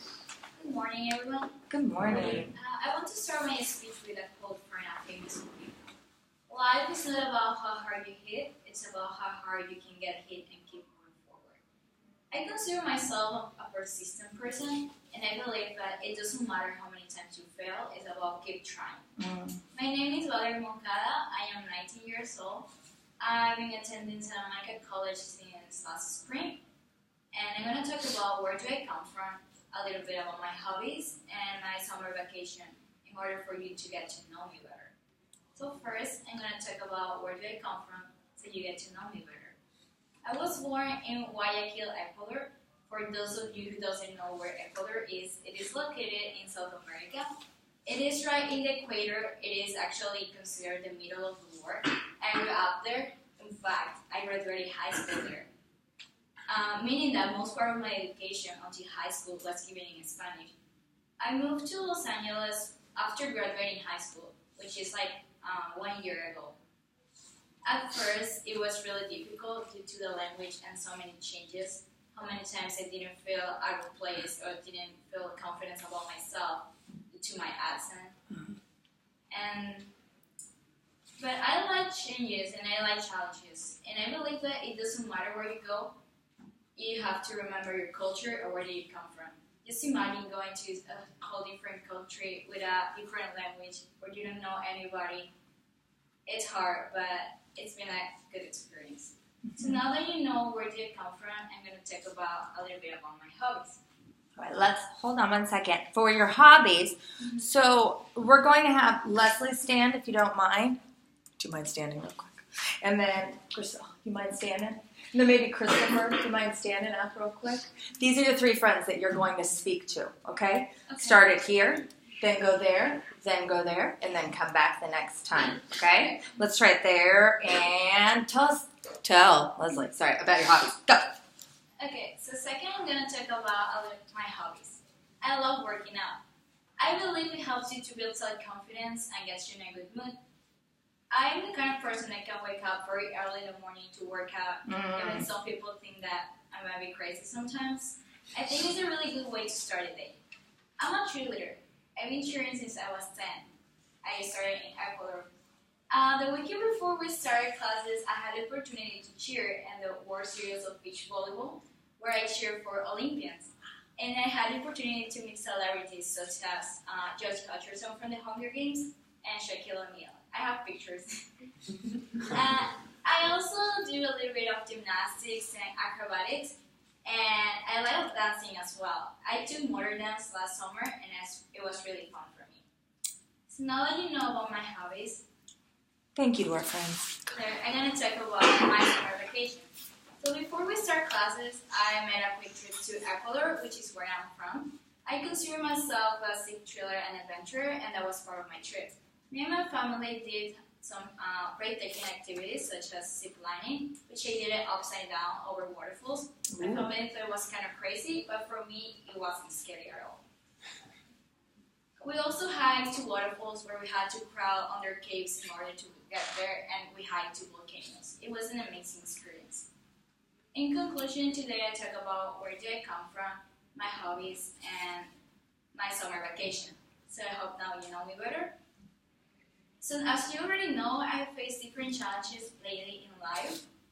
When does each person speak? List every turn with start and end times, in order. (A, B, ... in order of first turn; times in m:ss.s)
0:00.6-0:05.8 A
0:01.7-0:02.5 B
0:06.5-0:11.6 A
0:12.3-0:19.0 A
0:19.2-0:19.6 B
0:19.7-0:22.7 A
0:23.2-0:26.6 A
0:27.3-0:34.9 A
0:35.5-0:39.6 A
0:40.2-0:47.3 A
0:47.8-0:55.5 A
0:56.5-1:00.5 A
1:01.2-1:06.6 A
1:07.6-1:18.2 A
1:19.3-1:19.9 A
1:21.2-1:26.0 A
1:26.8-1:35.3 A
1:36.2-1:43.8 A
1:44.4-1:50.8 B
1:47.2-1:47.5 A
1:51.4-2:11.1 B
2:00.9-2:01.3 A
2:11.8-2:16.2 A
2:16.8-2:20.2 A
2:21.1-2:30.2 A
2:24.6-2:25.2 B
2:30.8-2:33.5 A
2:34.0-2:35.3 A
2:35.9-2:51.3 A
2:52.2-3:02.6 A
3:03.5-3:05.2 A
3:06.2-3:07.3 B
3:07.3-3:09.7 A
3:10.2-3:30.2 A
3:26.5-3:26.9 B
3:32.0-3:39.7 A
3:40.5-3:45.1 A
3:45.7-3:48.6 A
3:49.8-3:53.6 A